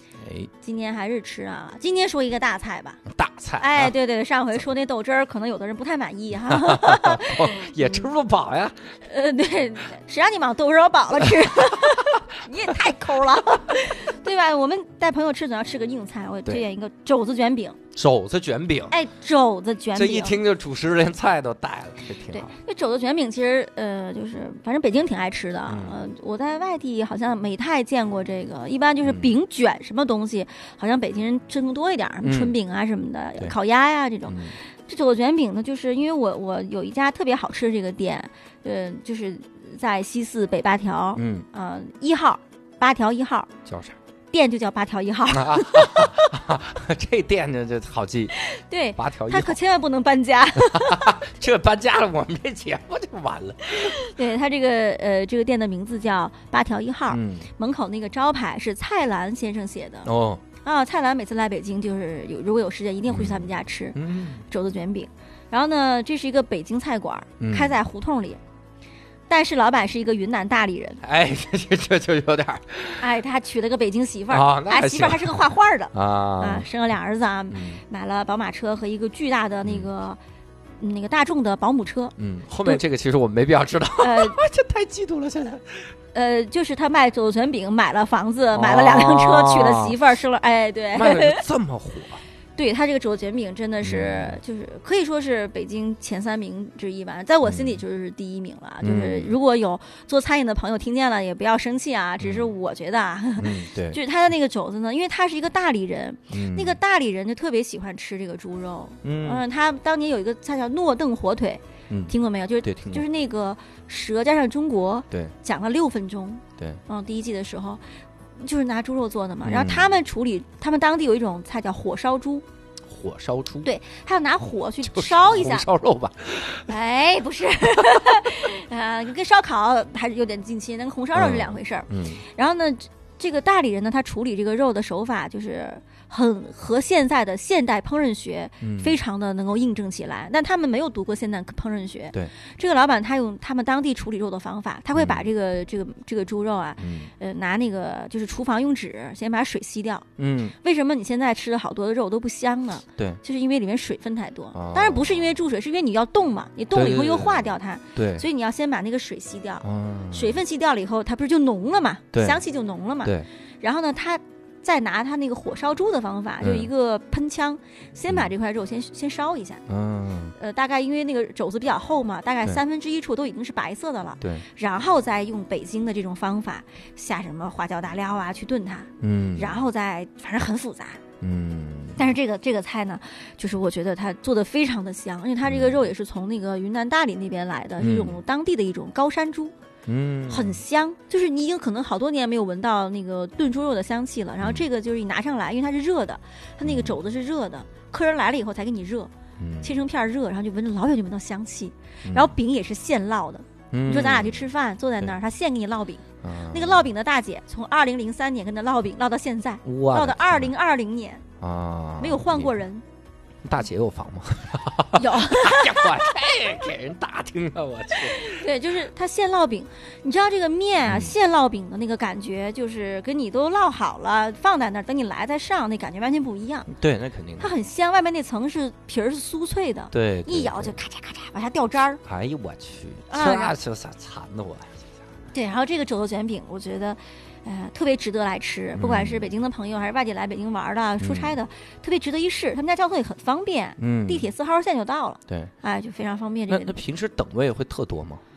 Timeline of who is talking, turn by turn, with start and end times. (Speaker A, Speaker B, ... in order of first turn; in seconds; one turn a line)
Speaker A: 0.2-0.5
Speaker B: 0.6-3.0
Speaker A: 3.1-3.9
Speaker B: 3.6-8.1
Speaker A: 6.5-8.9
Speaker B: 9.1-17.8
Speaker A: 17.9-19.0
Speaker B: 18.9-20.4
Speaker A: 19.9-22.5
Speaker B: 22.3-43.5
Speaker A: 25.7-26.0
Speaker A: 29.0-29.3
Speaker A: 32.2-32.5
Speaker A: 34.3-34.6
Speaker A: 41.2-41.5
Speaker A: 43.7-44.0
Speaker B: 44.3-46.5
Speaker A: 45.3-48.4
Speaker B: 48.4-51.2
Speaker A: 49.0-49.6
Speaker A: 50.7-54.0
Speaker B: 53.6-60.1
Speaker A: 57.1-57.5
Speaker A: 60.0-60.4
Speaker B: 60.6-68.4
Speaker A: 63.1-64.5
Speaker A: 67.4-67.8
Speaker B: 69.3-71.0
Speaker A: 71.0-73.1
Speaker B: 73.0-80.2
Speaker A: 74.3-76.7
Speaker A: 77.5-77.8
Speaker B: 80.8-82.1
Speaker A: 82.2-85.9
Speaker B: 84.0-84.4
Speaker B: 86.1-91.4
Speaker A: 88.5-90.0
Speaker A: 90.9-92.2
Speaker B: 92.6-117.8
Speaker A: 93.8-94.4
Speaker A: 97.4-97.8
Speaker A: 98.8-99.4
Speaker A: 102.2-102.5
Speaker A: 103.4-104.0
Speaker A: 106.3-106.8
Speaker A: 109.0-109.4
Speaker A: 111.9-113.0
Speaker B: 118.4-122.5
Speaker A: 119.4-120.0
Speaker A: 122.9-123.7
Speaker B: 123.6-125.7
Speaker A: 124.8-126.8
Speaker B: 126.6-169.6
Speaker A: 131.1-132.2
Speaker A: 138.6-139.0
Speaker A: 144.9-145.3
Speaker A: 146.8-147.1
Speaker A: 150.2-150.6
Speaker A: 154.5-155.2
Speaker A: 156.7-158.3
Speaker A: 159.6-160.4
Speaker A: 162.1-162.4
Speaker A: 166.4-166.7
Speaker A: 169.7-170.3
Speaker B: 170.4-181.0
Speaker A: 179.0-179.6
Speaker A: 181.2-182.0
Speaker B: 182.0-189.5
Speaker A: 185.5-185.8
Speaker A: 187.8-188.2
Speaker A: 189.9-190.6
Speaker B: 190.3-199.1
Speaker A: 196.6-197.0
Speaker A: 199.4-199.8
Speaker B: 199.6-211.2
Speaker A: 202.1-202.3
Speaker A: 203.7-204.5
Speaker A: 206.2-206.9
Speaker A: 209.6-210.5
Speaker A: 211.4-212.5
Speaker B: 212.0-212.8
Speaker A: 213.4-218.4
Speaker B: 215.0-216.1
Speaker B: 218.0-226.7
Speaker A: 220.8-221.1
Speaker A: 226.7-227.5
Speaker B: 227.4-232.0
Speaker A: 229.9-230.8
Speaker A: 232.1-234.9
Speaker B: 233.1-233.6
Speaker B: 235.3-246.8
Speaker A: 238.8-239.3
Speaker A: 241.0-241.4
Speaker A: 243.8-244.3
Speaker A: 246.5-248.2